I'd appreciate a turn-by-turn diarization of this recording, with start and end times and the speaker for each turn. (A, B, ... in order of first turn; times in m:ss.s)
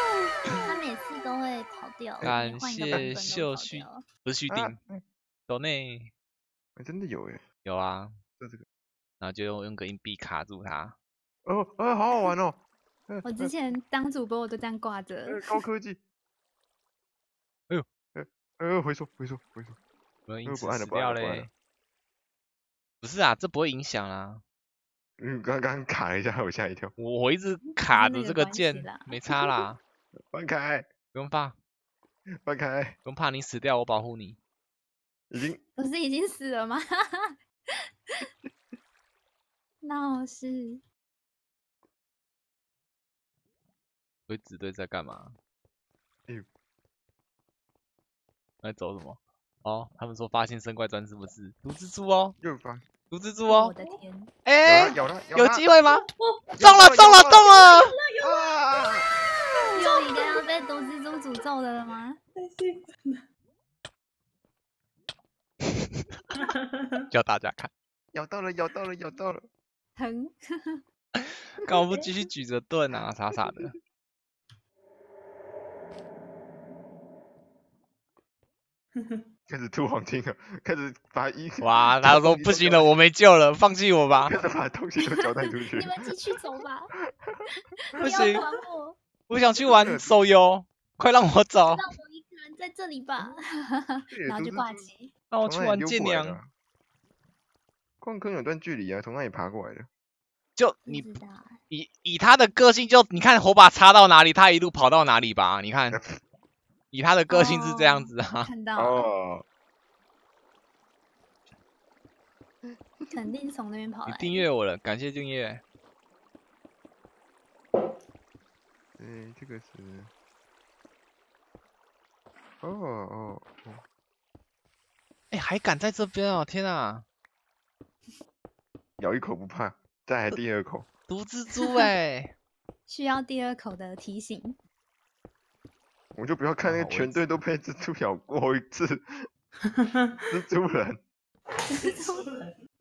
0:00.6-0:04.0 A
0:02.2-0:04.8 B
0:02.9-0:03.3 C
0:04.5-0:05.0 C
0:05.5-0:06.1 B
0:06.8-0:07.4 C
0:07.6-0:08.2 B
0:08.4-0:08.6 C
0:09.2-0:11.0 B
0:11.4-0:13.5 C
0:13.2-0:15.5 A
0:15.3-0:16.0 C
0:18.1-0:19.8 C
0:20.3-0:21.5 B
0:20.4-0:21.5 C
0:23.0-0:24.4 B
0:25.2-0:26.9 C
0:27.0-0:29.8 B
0:27.8-0:29.6 A
0:30.3-0:30.9 C
0:31.1-0:31.6 B
0:32.4-0:33.0 C
0:33.0-0:34.4 B
0:35.3-0:35.6 C
0:35.7-0:37.4 A
0:39.8-0:40.8 A
0:44.3-0:45.4 B
0:48.6-0:52.4 B
0:52.4-0:52.8 C
0:53.1-0:53.7 B
0:53.4-0:54.3 A
0:54.4-0:56.0 B
0:54.6-0:55.6 C
0:55.9-0:56.5 D
0:56.5-0:57.6 C
0:56.6-0:57.9 B
0:57.5-0:58.6 D
0:58.2-0:59.1 C
0:59.5-1:00.8 D
0:59.7-1:02.2 A
1:02.4-1:03.2 D
1:06.3-1:07.0 D
1:07.1-1:07.7 B
1:08.1-1:09.5 C
1:10.0-1:10.8 A
1:11.6-1:13.7 B
1:19.0-1:19.2 D
1:19.5-1:22.9 C
1:21.6-1:24.3 B
1:24.2-1:26.1 C
1:25.1-1:26.9 A
1:27.6-1:29.0 A
1:28.0-1:28.4 B
1:28.1-1:28.4 C
1:29.3-1:31.8 B
1:29.6-1:30.2 C
1:31.7-1:35.1 A
1:34.1-1:34.8 C
1:35.3-1:36.4 B
1:35.4-1:36.5 C
1:38.0-1:39.9 C
1:40.6-1:41.1 B
1:40.8-1:41.6 A
1:41.7-1:46.0 B
1:45.9-1:46.2 C
1:46.9-1:48.5 B
1:47.3-1:49.1 A
1:48.8-1:49.4 C
1:52.6-1:53.1 C
1:53.1-1:54.5 A
1:54.1-1:55.6 B
1:59.0-2:00.1 C
2:02.6-2:03.8 C
2:05.3-2:07.0 B
2:09.0-2:10.9 C
2:11.1-2:12.3 B
2:12.9-2:14.6 A
2:16.1-2:19.2 C
2:16.6-2:17.2 B
2:19.6-2:20.0 D
2:20.2-2:21.0 C
2:21.7-2:22.2 A
2:21.7-2:22.5 D